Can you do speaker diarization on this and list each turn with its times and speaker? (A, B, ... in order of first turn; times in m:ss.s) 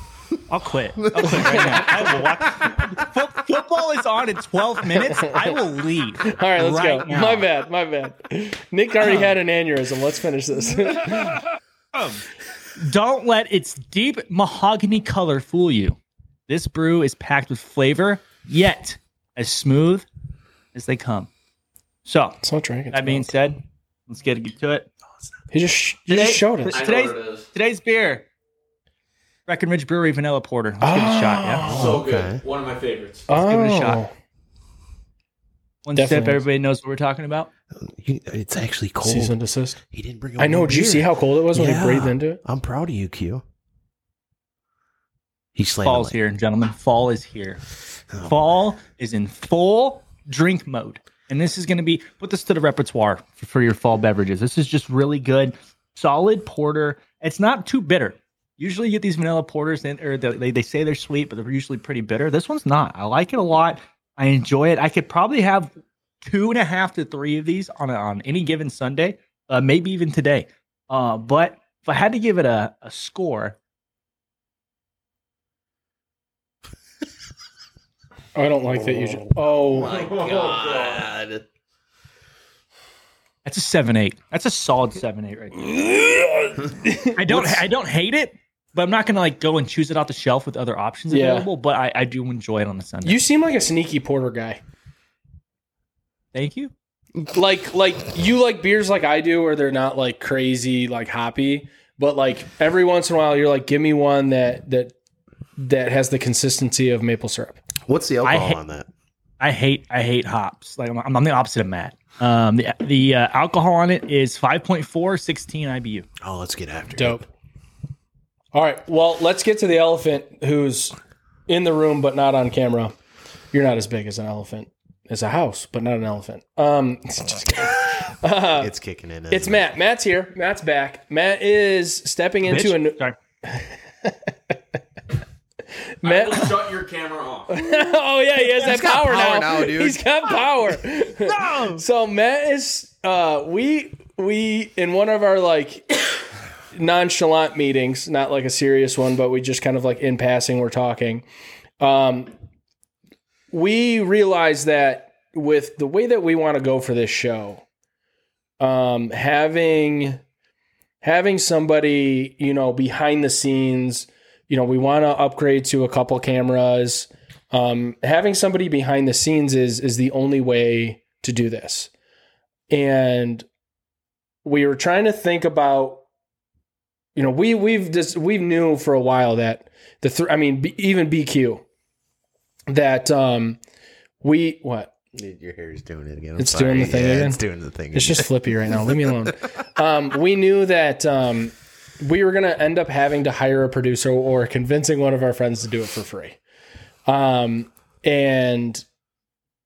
0:00.5-0:07.5 A
0:01.0-0:02.9 B
0:01.3-0:02.0 C
0:05.1-0:05.4 C
0:06.3-0:11.4 C
0:09.0-0:09.3 A
0:11.9-0:12.2 A
0:12.8-0:16.0 A
0:16.5-0:20.1 A
0:20.7-0:21.3 A
0:22.1-0:24.9 A
0:22.4-0:23.3 C
0:25.5-0:26.8 C
0:26.1-0:28.2 A
0:26.7-0:27.5 D
0:29.5-0:31.7 A
0:30.8-0:32.0 C
0:31.6-0:33.3 D
0:31.7-0:32.4 B
0:33.3-0:34.1 C
0:33.3-0:34.0 A
0:35.8-0:37.5 A
0:36.0-0:36.4 C
0:37.8-0:39.4 B
0:39.0-0:39.8 C
0:39.9-0:43.4 B
0:40.4-0:42.4 C
0:45.6-0:46.2 B
0:45.8-0:47.6 A
0:48.1-0:48.5 B
0:48.2-1:05.7 A
1:06.2-1:13.6 A
1:18.4-1:20.2 C
1:18.8-1:21.4 B
1:19.9-1:21.1 D
1:23.4-1:26.1 A
1:26.5-1:27.6 C
1:27.2-1:33.2 A
1:31.1-1:31.5 C
1:33.0-1:34.6 C
1:36.3-1:36.7 A
1:37.3-1:44.9 C
1:45.6-1:47.6 C
1:47.9-1:48.9 B
1:48.2-1:48.6 A
1:49.4-1:56.1 A
1:56.2-1:57.3 B
1:57.0-1:57.3 C
1:58.5-2:01.0 C
2:01.5-2:02.9 C
2:03.5-2:08.7 C
2:08.6-2:09.7 B
2:09.3-2:14.2 C
2:12.5-2:13.2 A
2:16.0-2:16.6 C
2:16.0-2:17.6 D
2:17.5-2:26.0 C
2:18.6-2:20.0 B
2:21.3-2:21.8 A
2:26.7-2:31.3 C
2:31.8-2:32.3 C
2:33.5-2:37.6 C
2:38.6-2:40.2 C
2:41.0-2:51.9 C
2:52.7-2:53.4 C
2:54.4-2:56.0 C
2:57.2-3:01.6 C
3:02.7-3:03.6 C
3:04.2-3:04.9 C
3:05.1-3:09.3 B
3:06.4-3:07.4 C
3:07.9-3:16.4 C
3:17.1-3:18.8 C